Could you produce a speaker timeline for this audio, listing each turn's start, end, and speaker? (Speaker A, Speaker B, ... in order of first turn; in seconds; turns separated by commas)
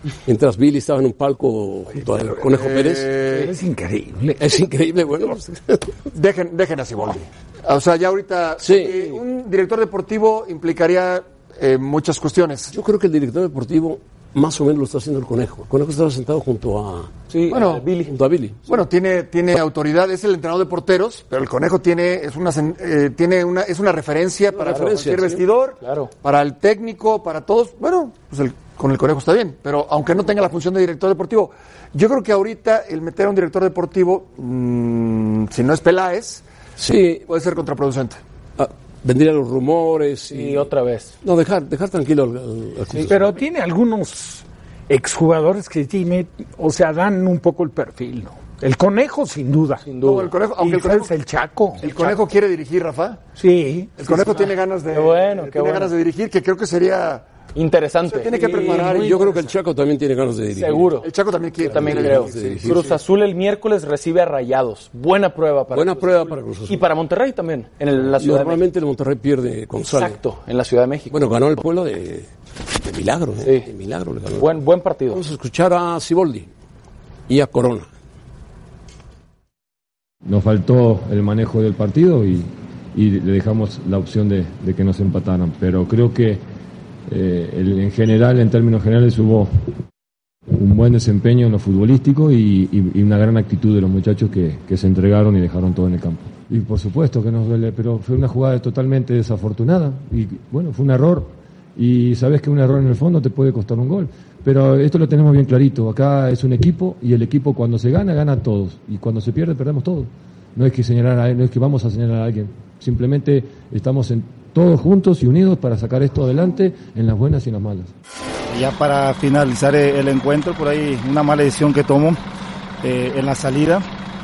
Speaker A: 0.2-3.2, Speaker B: 2.5-3.5, Speaker C: 3.3-4.4, Speaker A: 4.4-6.0, Speaker B: 6.1-12.7, Speaker A: 8.6-9.0, Speaker A: 12.7-17.1, Speaker D: 17.3-18.1, Speaker B: 17.5-17.9, Speaker A: 18.1-18.6, Speaker B: 18.7-36.4, Speaker A: 24.5-25.4, Speaker D: 25.8-26.1, Speaker A: 36.8-37.2, Speaker B: 37.2-38.2, Speaker A: 38.6-40.7, Speaker D: 40.3-41.1, Speaker A: 41.2-43.4, Speaker C: 43.1-49.9, Speaker D: 49.8-50.3, Speaker B: 50.0-51.1, Speaker C: 50.6-51.9, Speaker B: 51.8-53.2, Speaker D: 51.8-52.1, Speaker C: 53.4-54.2, Speaker B: 54.0-57.2, Speaker D: 54.1-55.9, Speaker D: 57.5-59.3, Speaker B: 58.1-59.5, Speaker A: 58.6-61.0, Speaker D: 60.5-61.1, Speaker B: 61.0-62.8, Speaker D: 61.6-68.6, Speaker A: 61.6-63.0, Speaker A: 65.7-66.8, Speaker A: 68.0-70.2, Speaker D: 69.9-71.2, Speaker A: 71.1-74.5, Speaker D: 73.4-73.7, Speaker D: 74.3-75.2, Speaker A: 75.1-76.5, Speaker A: 77.3-77.9, Speaker E: 80.2-86.4, Speaker E: 87.1-89.5, Speaker E: 90.5-117.9, Speaker F: 118.5-122.2, Speaker F: 122.8-123.8